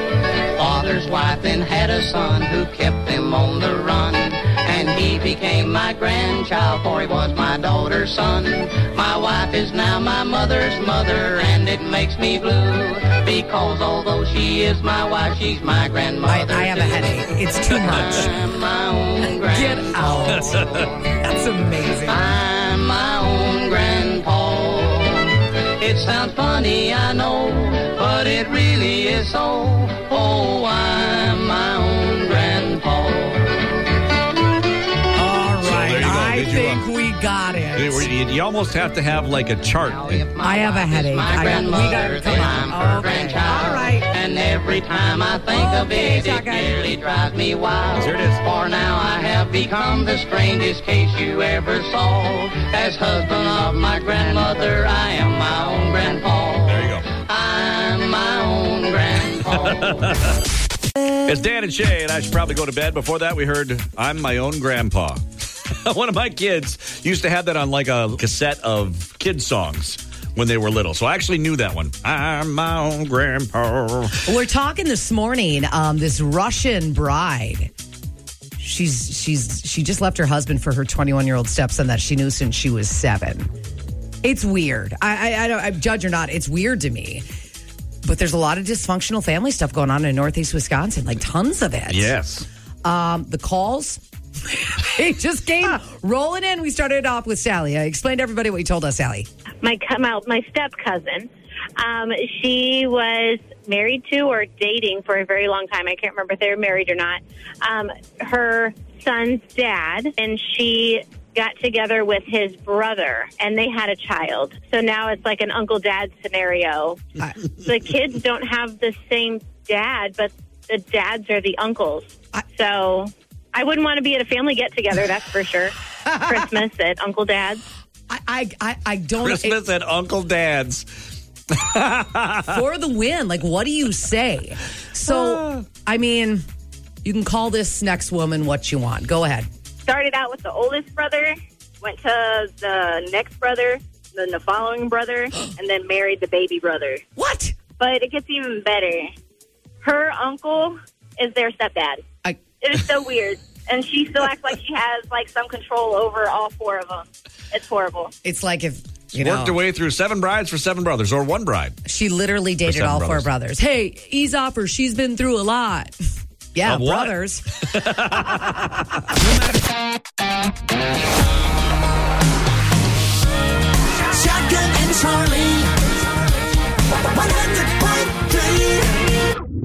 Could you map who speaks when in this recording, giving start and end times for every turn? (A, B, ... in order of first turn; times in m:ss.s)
0:00.5-0:21.1 A
0:16.2-0:18.3 B
0:19.5-0:22.2 B
0:20.6-0:20.8 C
0:22.0-0:33.8 A
0:35.2-0:38.1 B
0:35.6-0:36.8 C
0:37.8-0:40.2 C
0:39.8-1:00.2 A
0:40.4-0:44.1 B
0:45.5-0:46.8 B
0:47.9-0:48.4 C
0:56.7-0:57.1 C
0:59.6-1:00.4 C
1:01.2-1:14.3 C
1:14.2-1:17.7 B
1:18.6-1:23.5 B
1:24.2-1:27.2 B
1:28.0-1:32.1 B
1:31.9-1:32.5 C
1:32.8-1:39.3 B
1:39.6-1:57.1 D
1:57.6-2:07.6 D
2:06.0-2:06.4 B
2:08.1-2:09.6 B
2:09.2-2:10.9 C
2:11.5-2:12.6 C
2:12.5-2:16.4 B
2:15.0-2:15.6 C
2:17.0-2:19.5 B
2:19.8-2:27.0 E
2:27.2-2:27.5 B
2:27.8-2:29.1 E
2:29.8-2:32.0 E
2:32.6-2:38.1 E
2:38.2-2:39.6 B
2:39.2-2:41.8 C
2:41.8-2:45.9 B
2:42.6-2:43.3 C
2:46.5-2:47.4 B
2:46.6-2:49.0 C
2:48.3-2:48.7 B
2:54.4-2:55.6 B